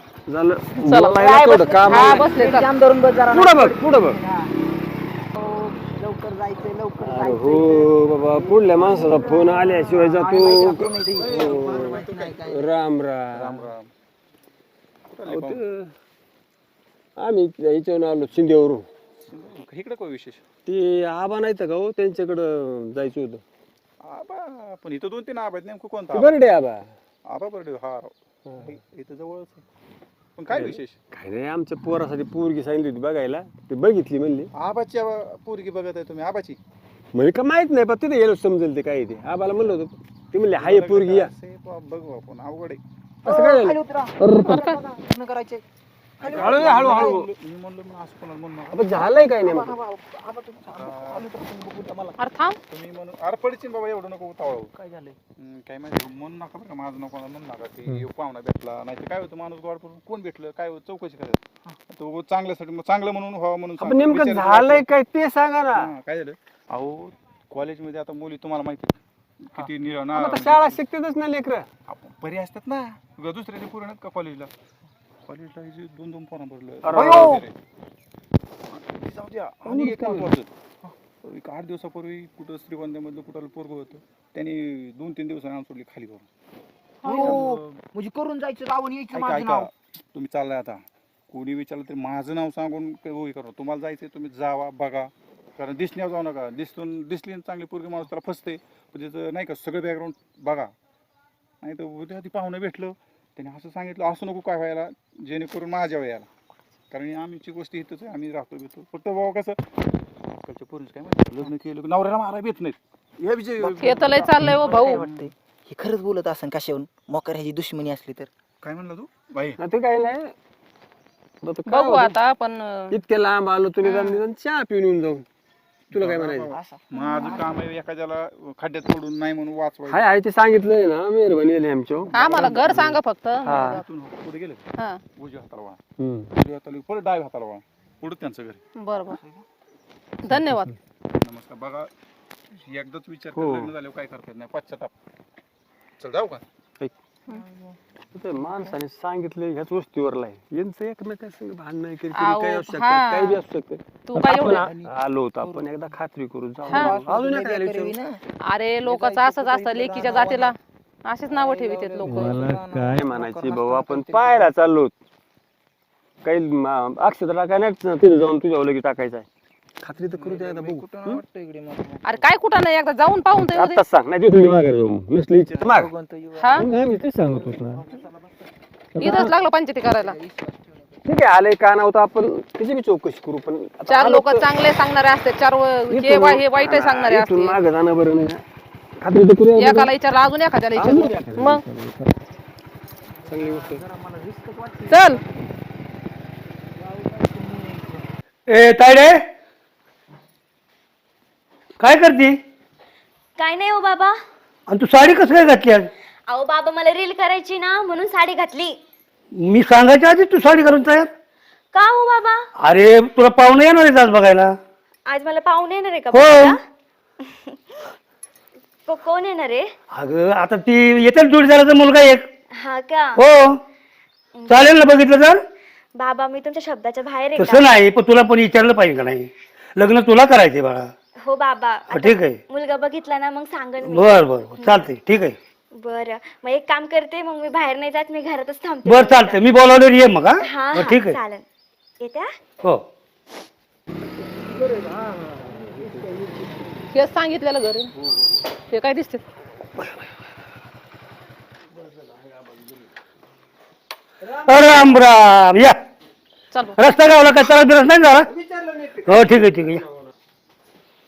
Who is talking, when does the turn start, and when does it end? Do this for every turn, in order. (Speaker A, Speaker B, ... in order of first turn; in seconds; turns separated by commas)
Speaker A: 0.3-2.3, Speaker B: 0.8-1.2, Speaker C: 1.1-4.5, Speaker B: 1.9-2.7, Speaker A: 3.3-4.2, Speaker C: 5.3-12.7, Speaker A: 7.0-13.7, Speaker D: 11.2-12.3, Speaker D: 13.3-13.9, Speaker D: 15.1-15.6, Speaker A: 15.2-15.9, Speaker A: 17.2-18.9, Speaker D: 19.3-20.4, Speaker A: 20.6-23.4, Speaker D: 24.0-26.4, Speaker A: 26.1-26.9, Speaker D: 27.2-29.6, Speaker D: 30.4-31.0, Speaker A: 30.5-34.5, Speaker D: 34.5-36.6, Speaker A: 37.1-41.3, Speaker D: 40.5-42.8, Speaker C: 43.2-45.6, Speaker A: 43.2-44.6, Speaker B: 44.5-44.8, Speaker C: 46.2-47.2, Speaker D: 46.2-49.0, Speaker A: 46.2-47.3, Speaker A: 48.7-49.8, Speaker C: 49.4-52.2, Speaker D: 50.7-51.3, Speaker B: 52.2-52.6, Speaker D: 52.7-54.7, Speaker C: 54.7-55.1, Speaker D: 55.4-64.8, Speaker A: 63.8-65.9, Speaker D: 65.7-70.8, Speaker A: 69.6-71.7, Speaker D: 71.9-74.5, Speaker D: 75.3-77.5, Speaker A: 76.8-77.4, Speaker C: 77.1-77.4, Speaker D: 78.7-80.5, Speaker A: 79.6-80.4, Speaker D: 81.1-86.3, Speaker C: 87.0-89.7, Speaker B: 87.0-87.4, Speaker D: 87.1-87.8, Speaker D: 89.1-100.7, Speaker D: 101.6-106.3, Speaker D: 106.9-109.6, Speaker D: 110.4-115.2, Speaker B: 113.8-115.0, Speaker C: 114.4-118.3, Speaker D: 118.6-119.6, Speaker A: 119.6-120.3, Speaker A: 121.4-122.2, Speaker B: 121.7-122.9, Speaker A: 122.9-125.2, Speaker B: 123.8-124.2, Speaker A: 125.9-126.5, Speaker D: 125.9-130.1, Speaker C: 126.5-126.8, Speaker B: 127.0-127.3, Speaker A: 129.9-133.8, Speaker D: 132.1-132.5, Speaker B: 132.1-133.8, Speaker D: 133.4-135.8, Speaker A: 136.0-136.3, Speaker D: 136.3-138.6, Speaker B: 138.8-139.2, Speaker B: 140.2-140.7, Speaker A: 140.3-140.6, Speaker D: 141.2-141.9, Speaker D: 142.6-144.9, Speaker A: 143.3-143.7, Speaker D: 146.0-146.4, Speaker C: 147.3-147.7, Speaker A: 148.1-157.9, Speaker B: 152.2-153.4, Speaker B: 154.1-154.7, Speaker C: 154.3-155.7, Speaker C: 156.6-158.2, Speaker B: 156.7-156.9, Speaker B: 158.4-162.4, Speaker C: 158.8-160.5, Speaker C: 161.3-164.5, Speaker A: 162.0-164.9, Speaker A: 166.2-169.3, Speaker A: 169.8-171.2, Speaker C: 170.0-172.2, Speaker B: 172.0-173.8, Speaker A: 173.3-175.9, Speaker C: 175.4-176.7, Speaker B: 176.4-176.7, Speaker A: 176.6-177.8, Speaker C: 177.2-178.4, Speaker A: 178.9-179.3, Speaker B: 179.0-180.2, Speaker C: 179.9-181.1, Speaker A: 181.0-184.5, Speaker B: 183.8-187.6, Speaker A: 185.9-188.4, Speaker A: 189.0-189.9, Speaker B: 189.6-191.6, Speaker A: 190.7-192.1, Speaker C: 193.2-195.2, Speaker A: 193.3-193.8, Speaker B: 194.9-195.2, Speaker C: 196.8-198.0, Speaker E: 198.5-199.2, Speaker E: 201.8-202.4, Speaker F: 203.4-204.2, Speaker E: 204.7-205.9, Speaker F: 206.3-208.8, Speaker E: 209.3-211.1, Speaker F: 211.7-212.5, Speaker E: 212.6-214.6, Speaker F: 215.1-216.6, Speaker E: 216.1-216.6, Speaker F: 218.8-219.7, Speaker E: 219.9-222.3, Speaker F: 222.5-223.2, Speaker E: 223.2-223.6, Speaker F: 224.4-224.7, Speaker E: 224.5-225.4, Speaker F: 225.9-227.7, Speaker E: 227.3-230.9, Speaker F: 231.2-234.8, Speaker E: 231.9-232.4, Speaker E: 233.8-235.4, Speaker F: 235.7-239.4, Speaker E: 238.8-241.2, Speaker F: 240.4-241.4, Speaker F: 242.0-242.3, Speaker A: 244.5-246.8, Speaker B: 246.9-247.9, Speaker A: 247.9-248.5, Speaker B: 248.7-249.2, Speaker A: 251.7-252.9, Speaker A: 254.2-255.0, Speaker E: 254.4-255.8, Speaker B: 256.5-256.8, Speaker E: 256.8-258.3, Speaker A: 258.2-260.1, Speaker E: 259.0-259.9